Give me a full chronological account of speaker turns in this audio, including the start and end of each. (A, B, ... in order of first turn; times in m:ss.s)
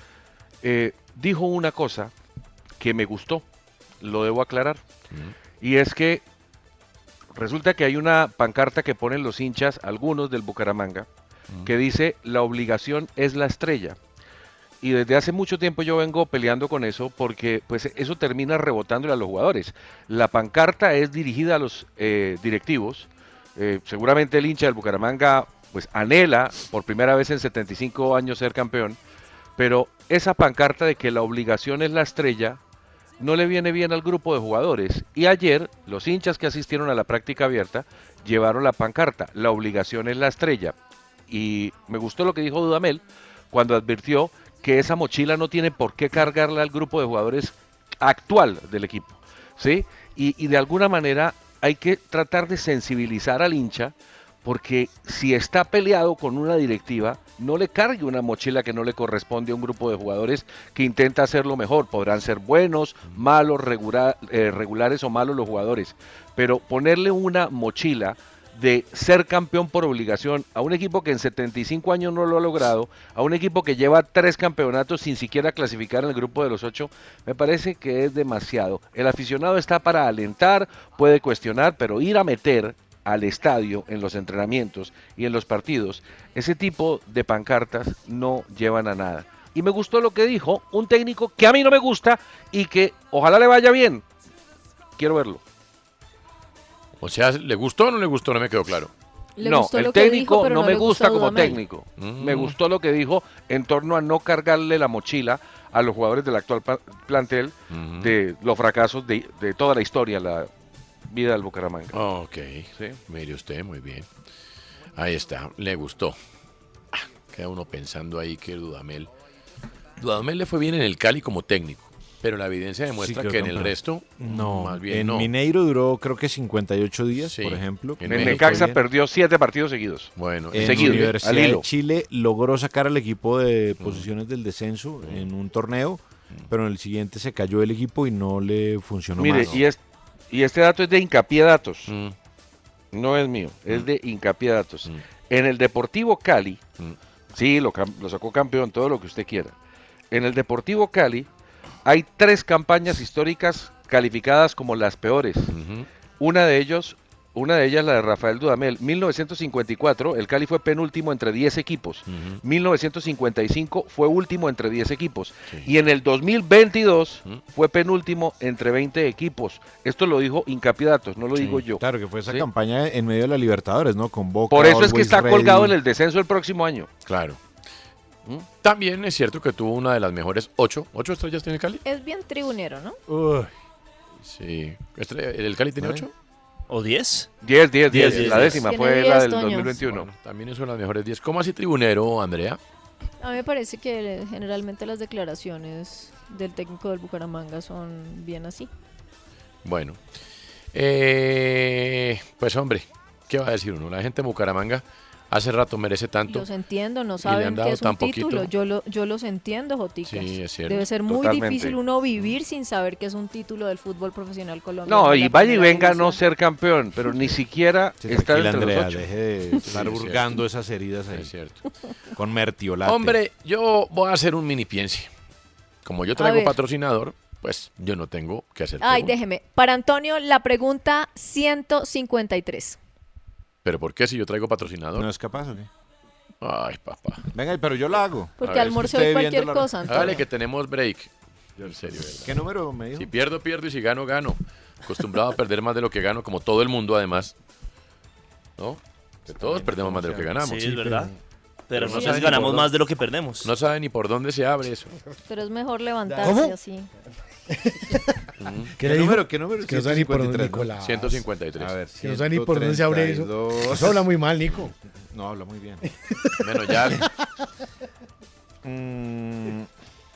0:00.6-0:02.1 A
0:02.8-0:03.4 A
0:04.0-0:04.8 A
0:05.6-0:06.2 A
0:07.3-0:11.1 A
0:11.6-0:14.0 A
0:14.8-0:29.0 A
0:29.6-0:32.6 A
0:33.2-0:40.7 A
0:41.3-1:34.0 A
1:35.0-1:35.4 A
1:37.0-1:38.9 B
1:39.4-1:41.6 C
1:39.4-1:50.5 A
1:42.0-1:42.6 B
1:47.7-1:48.1 B
1:51.1-1:52.0 A
1:51.9-1:54.1 B
1:55.0-1:56.2 B
1:56.9-1:59.1 B
2:00.0-2:05.3 B
2:02.9-2:08.8 D
2:07.2-2:08.7 B
2:08.0-2:11.6 A
2:10.2-2:11.2 B
2:10.5-2:19.6 D
2:13.8-2:14.1 B
2:19.2-2:19.8 A
2:19.3-2:19.6 B
2:20.3-2:21.9 A
2:21.9-2:22.1 B
2:22.9-2:26.6 A
2:27.3-2:29.5 A
2:30.1-2:31.3 A
2:31.8-2:35.5 A
2:35.5-2:35.9 B
2:36.2-2:52.4 A
2:42.1-2:42.4 B
2:51.7-2:55.7 D
2:54.5-2:56.9 A
2:57.0-2:57.4 B
2:58.6-3:01.8 B
3:01.8-3:03.0 C
3:03.1-3:03.5 D
3:04.2-3:06.1 B
3:05.8-3:06.0 D
3:06.7-3:07.3 E
3:07.4-3:10.1 A
3:07.9-3:08.6 E
3:07.9-3:08.6 B
3:08.6-3:09.7 C
3:09.8-3:12.6 B
3:13.2-3:18.7 C
3:19.6-3:20.0 B
3:20.7-3:26.4 B
3:26.3-3:36.2 C
3:27.2-3:28.5 B
3:30.0-3:30.8 B
3:31.1-3:31.8 A
3:34.8-3:39.0 A
3:38.0-3:41.3 D
3:39.6-3:40.4 B
3:41.1-3:41.6 B
3:42.1-3:43.2 D
3:42.8-3:45.1 B
3:45.8-3:49.2 B
3:46.2-3:46.5 C
3:48.8-3:52.8 C
3:53.6-3:55.1 B
3:55.0-3:55.7 D
3:56.4-3:57.3 B
3:57.3-4:00.2 D
3:58.4-4:00.2 C
3:58.4-3:58.8 B
3:59.9-4:01.1 B
4:01.6-4:03.1 D
4:01.6-4:02.4 B
4:03.0-4:07.3 B
4:08.6-4:11.1 B
4:09.3-4:10.3 D
4:10.4-4:11.1 E
4:11.7-4:13.5 E
4:11.7-4:12.7 B
4:11.9-4:12.2 C
4:13.4-4:14.9 B
4:15.3-4:16.9 C
4:16.2-4:16.5 F
4:17.5-4:18.2 F
4:18.4-4:18.7 B
4:18.8-4:21.2 F
4:18.8-4:20.7 D
4:20.8-4:21.8 B
4:21.6-4:24.0 D
4:22.0-4:24.7 F
4:25.1-4:25.8 D
4:26.4-4:27.1 B
4:26.6-4:27.0 F
4:28.6-4:29.7 D